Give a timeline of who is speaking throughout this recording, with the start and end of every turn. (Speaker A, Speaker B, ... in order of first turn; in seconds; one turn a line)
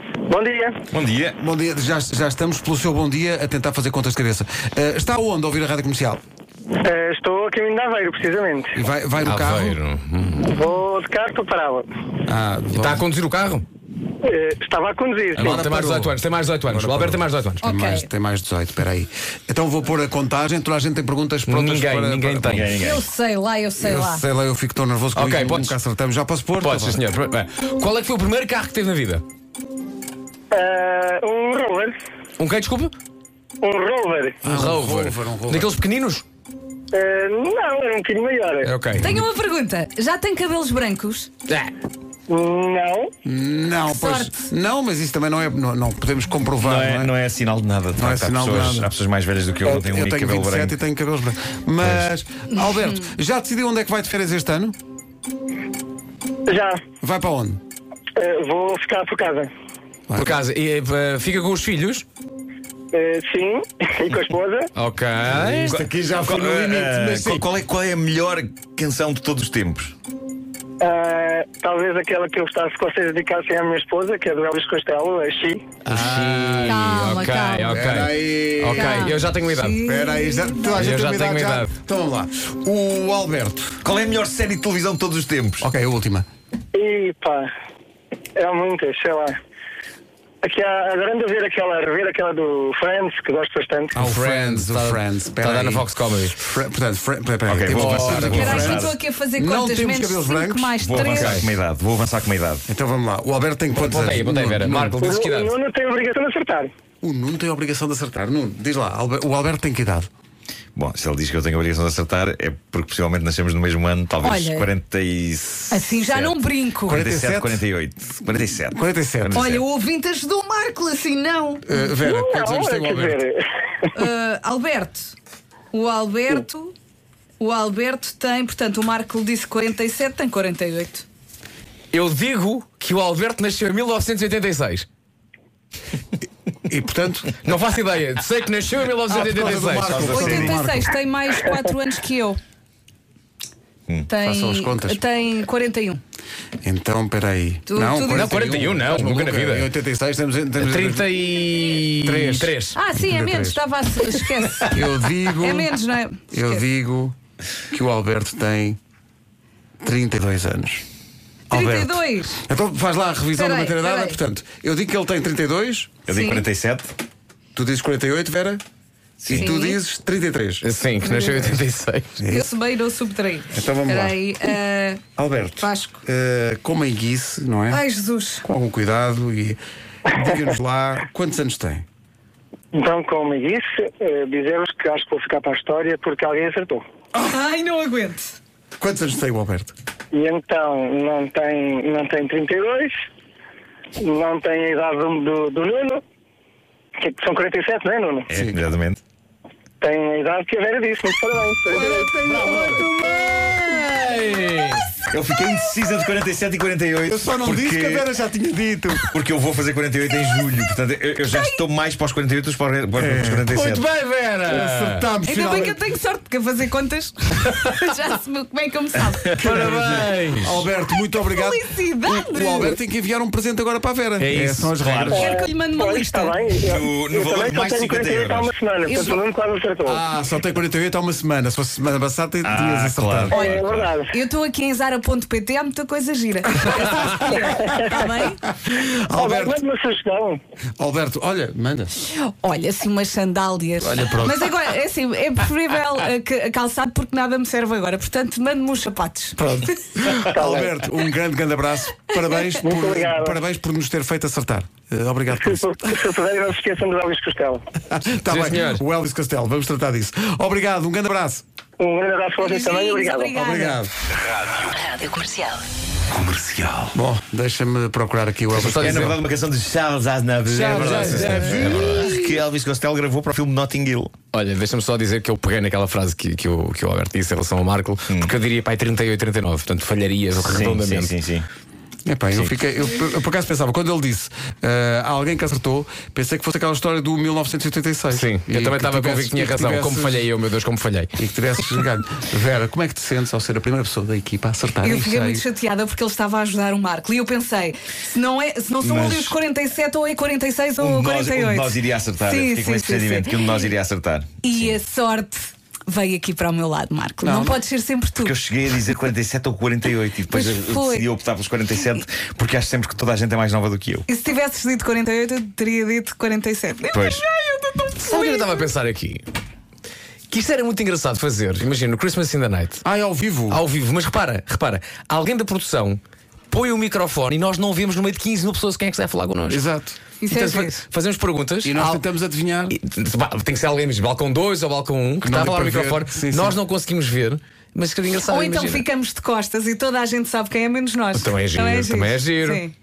Speaker A: 0.3-0.8
Speaker B: 0.9-1.4
Speaker C: 1.4-6.2
Speaker A: 6.8-8.7
Speaker C: 8.7-9.8
Speaker D: 9.2-10.5
Speaker A: 10.4-11.8
Speaker C: 12.2-13.0
Speaker D: 12.7-13.6
Speaker A: 14.2-15.6
Speaker C: 15.3-22.6
Speaker D: 15.4-17.6
Speaker E: 17.6-18.1
Speaker D: 21.4-22.8
Speaker B: 22.4-23.0
Speaker E: 22.8-24.2
Speaker C: 23.8-27.0
Speaker D: 25.1-25.8
Speaker D: 26.6-29.2
Speaker A: 30.5-31.9
Speaker D: 32.4-32.9
Speaker A: 33.6-34.4
Speaker D: 34.4-36.2
Speaker C: 34.4-35.7
Speaker A: 36.9-38.7
Speaker D: 38.6-39.2
Speaker E: 39.0-41.3
Speaker D: 41.5-41.7
Speaker A: 42.3-43.1
Speaker C: 43.2-47.1
Speaker E: 43.9-44.4
Speaker B: 46.6-50.8
Speaker C: 48.0-48.9
Speaker C: 49.6-54.7
Speaker B: 51.8-52.1
Speaker A: 56.5-56.8
Speaker C: 57.0-57.6
Speaker A: 58.1-59.5
Speaker C: 60.1-60.3
Speaker D: 60.1-62.0
Speaker A: 62.9-64.7
Speaker D: 64.8-65.8
Speaker C: 65.3-67.5
Speaker B: 65.6-69.9
Speaker A: 70.8-75.7
Speaker C: 75.9-77.0
Speaker D: 75.9-79.8
Speaker E: 76.6-77.8
Speaker C: 77.7-79.1
Speaker E: 78.7-80.9
Speaker C: 79.8-83.8
Speaker D: 80.7-81.7
Speaker B: 83.8-85.7
Speaker C: 85.6-86.3
Speaker A: 86.7-87.5
Speaker A: 88.3-89.3
Speaker A: 90.4-93.9
Speaker D: 93.9-96.4
Speaker C: 94.0-100.7
Speaker B: 97.5-99.0
Speaker D: 97.7-98.7
Speaker E: 98.3-101.4
Speaker B: 100.8-102.6
Speaker D: 101.1-101.4
Speaker C: 102.7-105.0
Speaker D: 103.7-105.5
Speaker A: 105.0-106.7
Speaker C: 107.0-110.1
Speaker B: 110.7-119.6
Speaker E: 114.2-114.7
Speaker E: 115.7-117.0
Speaker C: 116.9-117.6
Speaker C: 118.7-119.5
Speaker E: 119.3-121.8
Speaker C: 121.7-123.2
Speaker A: 122.0-123.8
Speaker E: 123.9-125.1
Speaker E: 125.7-126.7
Speaker E: 127.4-131.1
Speaker D: 131.9-134.8
Speaker C: 136.6-137.4
Speaker D: 137.4-140.2
Speaker C: 139.1-140.9
Speaker B: 139.9-140.6
Speaker E: 140.1-142.4
Speaker E: 144.1-146.0
Speaker C: 144.2-145.0
Speaker C: 146.6-151.1
Speaker E: 147.7-148.3
Speaker D: 148.1-149.7
Speaker D: 150.6-152.8
Speaker C: 152.0-153.6
Speaker E: 152.7-154.7
Speaker C: 154.7-155.7
Speaker E: 155.4-156.6
Speaker C: 156.3-157.1
Speaker C: 157.7-158.8
Speaker C: 159.8-160.8
Speaker C: 161.5-165.9
Speaker E: 161.5-162.3
Speaker E: 163.3-164.2
Speaker B: 166.1-166.9
Speaker E: 166.1-166.4
Speaker C: 167.5-168.6
Speaker B: 169.2-169.5
Speaker C: 169.3-170.7
Speaker E: 169.3-169.8
Speaker D: 170.6-172.1
Speaker E: 171.0-171.6
Speaker C: 172.2-172.5
Speaker E: 172.3-175.0
Speaker C: 173.5-174.2
Speaker C: 175.1-177.8
Speaker E: 175.6-176.0
Speaker E: 177.7-178.4
Speaker C: 178.4-181.8
Speaker A: 182.7-186.8
Speaker E: 187.1-188.4
Speaker C: 188.8-189.7
Speaker A: 190.1-192.9
Speaker A: 194.0-196.0
Speaker A: 197.0-198.3
Speaker B: 198.3-199.0
Speaker C: 198.3-198.6
Speaker A: 199.8-202.2
Speaker C: 201.7-203.4
Speaker B: 202.2-202.8
Speaker D: 203.2-205.0
Speaker B: 205.1-208.1
Speaker C: 207.1-209.1
Speaker B: 209.0-213.8
Speaker E: 211.3-211.6
Speaker C: 213.0-213.4
Speaker D: 213.5-215.1
Speaker C: 214.4-215.8
Speaker E: 215.2-219.4
Speaker D: 219.3-220.7
Speaker A: 219.4-219.9
Speaker C: 220.4-225.3
Speaker E: 220.9-222.8
Speaker D: 224.2-225.2
Speaker B: 224.8-225.4
Speaker A: 225.1-230.0
Speaker E: 225.1-226.4
Speaker B: 226.6-228.5
Speaker E: 228.8-229.2
Speaker C: 229.8-233.4
Speaker B: 232.4-233.9
Speaker A: 233.3-234.1
Speaker E: 233.3-238.5
Speaker A: 237.6-238.0
Speaker C: 238.5-239.6
Speaker A: 239.1-240.4
Speaker C: 240.8-242.0
Speaker E: 242.1-249.4
Speaker C: 243.8-244.5
Speaker C: 249.4-255.9
Speaker A: 250.3-250.7
Speaker A: 252.6-253.4
Speaker A: 255.3-257.6
Speaker C: 257.9-261.4
Speaker D: 258.2-258.8
Speaker A: 261.8-263.3
Speaker E: 262.4-263.8
Speaker C: 263.4-263.9
Speaker C: 266.9-269.1
Speaker D: 268.5-269.1
Speaker B: 268.6-274.1
Speaker C: 270.5-272.1
Speaker D: 270.7-272.1
Speaker D: 274.3-281.1
Speaker B: 280.4-281.5
Speaker C: 282.1-290.3
Speaker D: 288.1-291.1
Speaker C: 291.2-295.4
Speaker E: 294.8-303.6
Speaker B: 298.8-299.4
Speaker B: 300.8-304.8
Speaker E: 304.4-308.3
Speaker C: 307.2-307.6
Speaker B: 308.2-314.1
Speaker E: 310.3-311.1
Speaker E: 314.1-317.2
Speaker B: 316.9-317.2
Speaker D: 317.2-319.3
Speaker E: 318.0-318.7
Speaker D: 320.3-322.8
Speaker C: 322.8-323.6
Speaker D: 323.5-329.6
Speaker C: 329.5-330.0
Speaker E: 330.2-330.9
Speaker D: 330.3-332.0
Speaker C: 331.6-332.8
Speaker D: 332.7-338.9
Speaker C: 335.2-336.6
Speaker E: 338.2-342.7
Speaker D: 341.1-342.6